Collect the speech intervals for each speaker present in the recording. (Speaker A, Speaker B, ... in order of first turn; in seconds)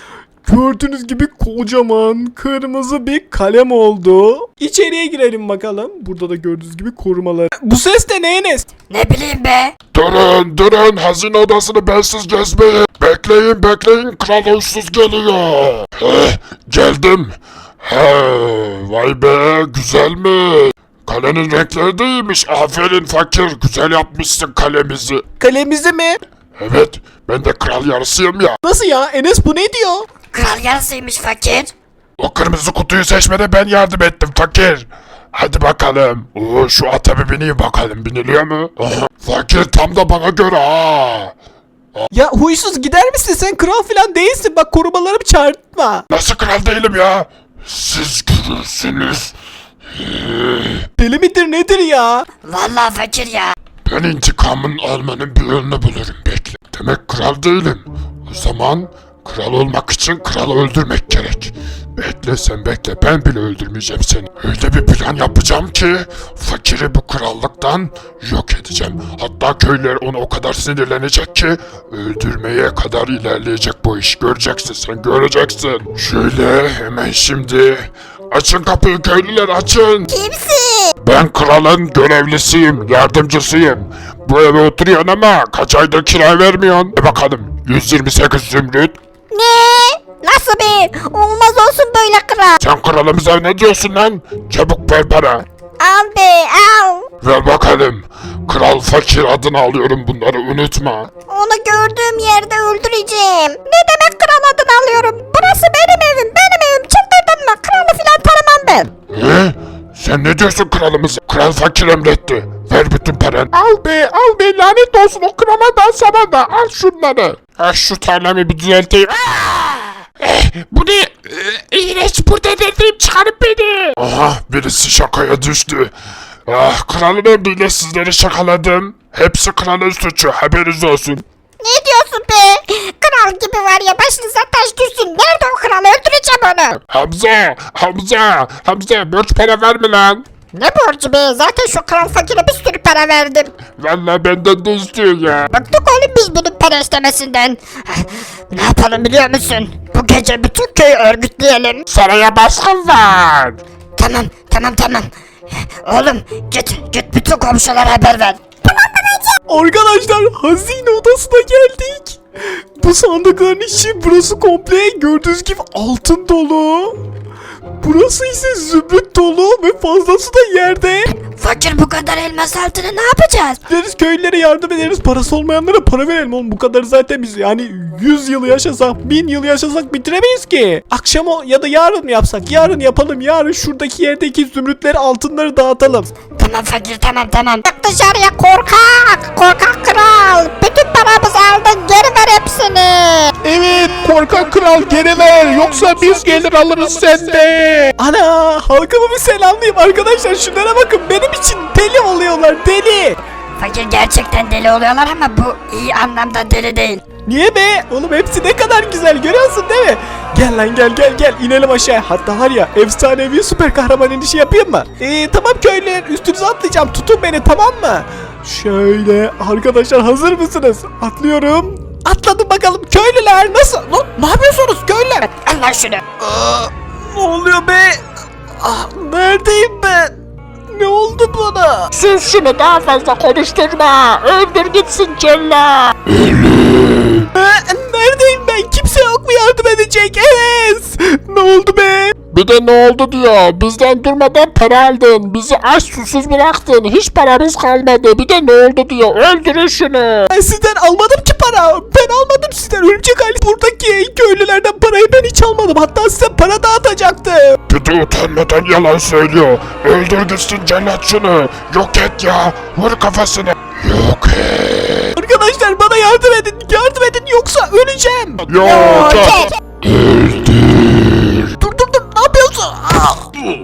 Speaker A: 0.5-8.7, 25.4-26.2, 28.6-30.1, 42.1-46.0, 51.0-52.3, 159.5-167.0, 167.8-171.1, 173.7-186.1, 198.0-203.2, 207.2-225.3, 226.2-228.0, 228.6-230.2, 230.7-231.9, 237.3-242.2, 250.3-257.6, 265.1-269.5, 271.6-273.3
Speaker B: 8.9-9.7, 30.3-31.7, 52.4-53.5, 80.1-80.9, 89.3-92.6, 95.8-97.0, 101.3-108.9, 131.6-136.8, 140.5-143.5, 145.5-151.8, 154.0-159.3, 171.2-173.6, 186.4-193.3, 203.6-207.0, 225.3-226.0
Speaker C: 9.9-25.2, 26.5-28.6, 32.2-41.3, 46.1-49.3, 49.9-50.9, 53.9-80.1, 81.0-89.0, 92.6-95.4, 97.2-101.1, 109.1-125.9, 126.5-131.2, 136.9-140.2, 143.8-145.5, 151.9-153.6, 193.4-197.9, 231.9-237.3, 242.3-250.3, 257.7-265.1, 268.4-271.5